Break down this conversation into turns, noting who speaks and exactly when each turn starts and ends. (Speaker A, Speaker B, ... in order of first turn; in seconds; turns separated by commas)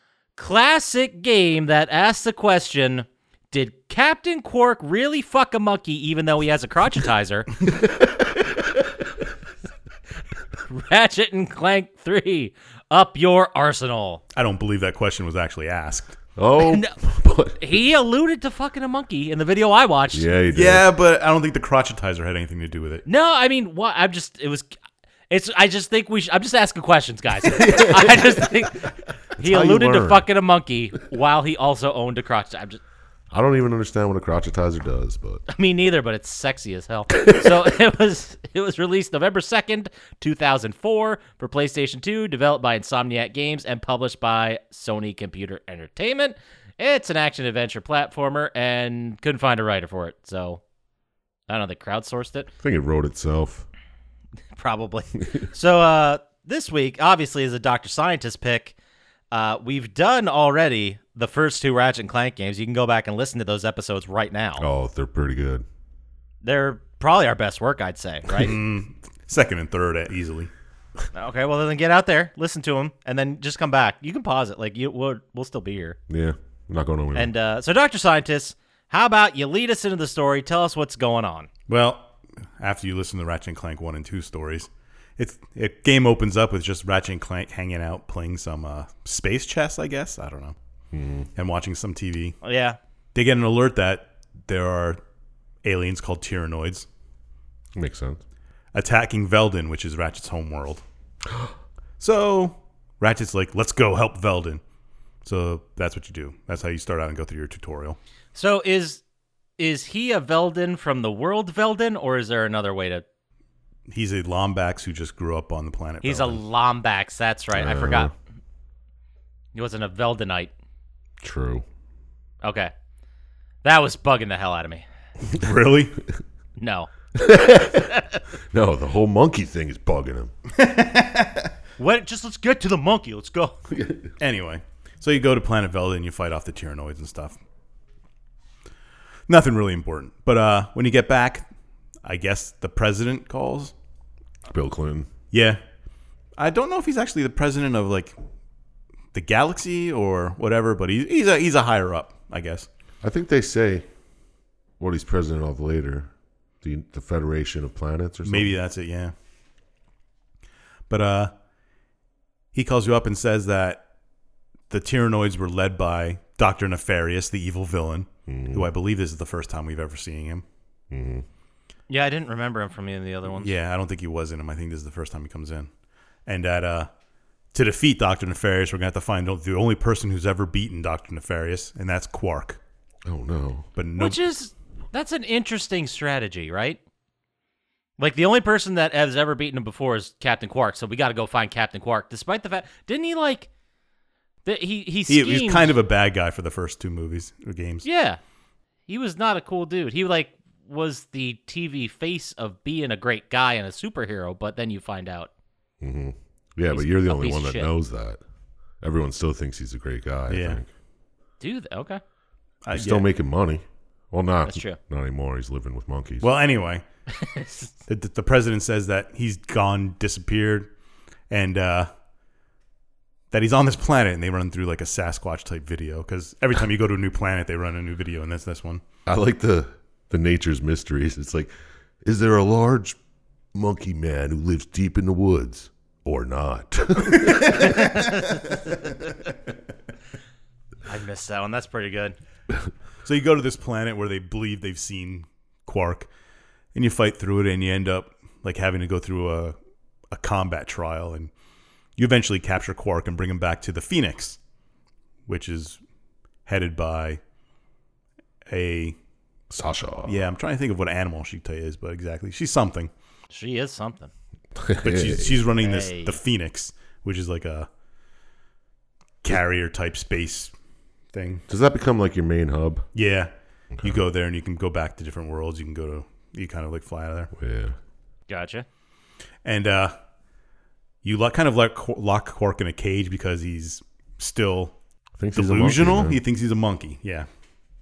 Speaker A: 0.4-7.5, Speaker B: 7.7-8.9, Speaker A: 10.7-14.2, Speaker C: 14.3-16.2, Speaker B: 16.4-17.8, Speaker A: 16.6-16.9, Speaker A: 17.6-20.3, Speaker B: 20.1-20.9, Speaker C: 20.5-23.0, Speaker A: 23.1-24.7, Speaker A: 25.3-32.8, Speaker B: 27.5-28.5, Speaker B: 29.4-30.2, Speaker B: 33.3-35.4, Speaker A: 35.5-50.6, Speaker A: 51.5-52.5, Speaker B: 52.6-53.6, Speaker A: 54.5-58.7, Speaker A: 59.3-64.7, Speaker B: 64.6-65.6, Speaker A: 66.4-68.5, Speaker C: 68.4-70.5, Speaker A: 71.1-76.0, Speaker B: 76.1-77.3, Speaker A: 77.1-81.5, Speaker C: 81.7-90.6, Speaker B: 90.9-91.3, Speaker C: 91.3-92.4, Speaker A: 92.4-92.8, Speaker C: 93.1-95.0, Speaker C: 95.6-96.9, Speaker B: 97.7-98.2, Speaker C: 98.7-100.8, Speaker C: 102.0-104.6, Speaker C: 105.2-108.0, Speaker A: 108.3-109.0, Speaker A: 109.6-113.0, Speaker C: 113.9-116.4, Speaker A: 116.0-118.1, Speaker B: 117.5-118.1, Speaker A: 119.5-120.5, Speaker B: 121.2-121.6, Speaker A: 122.4-122.7, Speaker A: 123.6-124.8, Speaker C: 125.3-126.0, Speaker A: 126.6-126.9, Speaker B: 127.1-128.0, Speaker A: 127.9-128.2, Speaker B: 128.5-130.3, Speaker C: 130.5-131.5, Speaker A: 131.8-133.6, Speaker B: 133.7-134.1, Speaker C: 134.2-137.4, Speaker C: 139.3-141.5, Speaker C: 142.0-143.7, Speaker B: 144.4-145.1, Speaker C: 145.3-145.6, Speaker C: 146.4-148.2, Speaker C: 149.1-152.7, Speaker B: 153.0-153.8, Speaker B: 154.8-156.1, Speaker B: 156.6-158.5, Speaker C: 158.2-159.1, Speaker C: 160.9-161.3, Speaker C: 162.5-163.8, Speaker C: 164.7-170.4, Speaker B: 168.3-168.7, Speaker B: 170.9-171.2, Speaker A: 171.9-173.5, Speaker C: 173.3-175.7, Speaker C: 176.2-176.9, Speaker C: 177.5-182.6, Speaker B: 183.1-183.7, Speaker C: 183.8-184.2, Speaker A: 184.0-186.8, Speaker A: 188.0-193.5, Speaker A: 194.4-195.7, Speaker C: 195.1-197.8, Speaker A: 197.8-198.2, Speaker A: 198.9-205.3, Speaker B: 205.8-208.2, Speaker A: 206.7-207.7, Speaker B: 208.8-210.7, Speaker C: 210.3-210.6, Speaker A: 211.4-212.0, Speaker C: 212.6-213.1, Speaker B: 212.7-216.3, Speaker A: 214.4-214.8, Speaker C: 216.2-216.8, Speaker A: 217.2-217.7, Speaker C: 217.9-220.7, Speaker C: 221.3-221.9, Speaker C: 223.3-228.8, Speaker B: 229.1-231.5, Speaker B: 232.0-233.0, Speaker B: 233.5-238.0, Speaker C: 237.1-238.1, Speaker A: 237.7-238.4, Speaker A: 240.8-242.2, Speaker C: 243.0-246.1, Speaker C: 246.7-249.6, Speaker C: 250.1-251.3, Speaker C: 252.0-254.4, Speaker C: 255.3-255.8, Speaker C: 256.4-257.2, Speaker C: 258.5-259.0, Speaker B: 259.5-260.2, Speaker C: 260.0-262.9, Speaker A: 263.3-264.1, Speaker B: 264.5-265.4, Speaker C: 264.8-267.7, Speaker A: 265.6-266.2, Speaker C: 269.2-270.5, Speaker C: 271.1-271.4, Speaker B: 271.5-272.9, Speaker C: 272.9-273.3, Speaker C: 273.8-277.3, Speaker B: 277.3-277.7, Speaker A: 278.3-278.6, Speaker C: 279.4-279.9, Speaker C: 281.0-284.8, Speaker B: 285.2-286.2, Speaker C: 285.3-287.3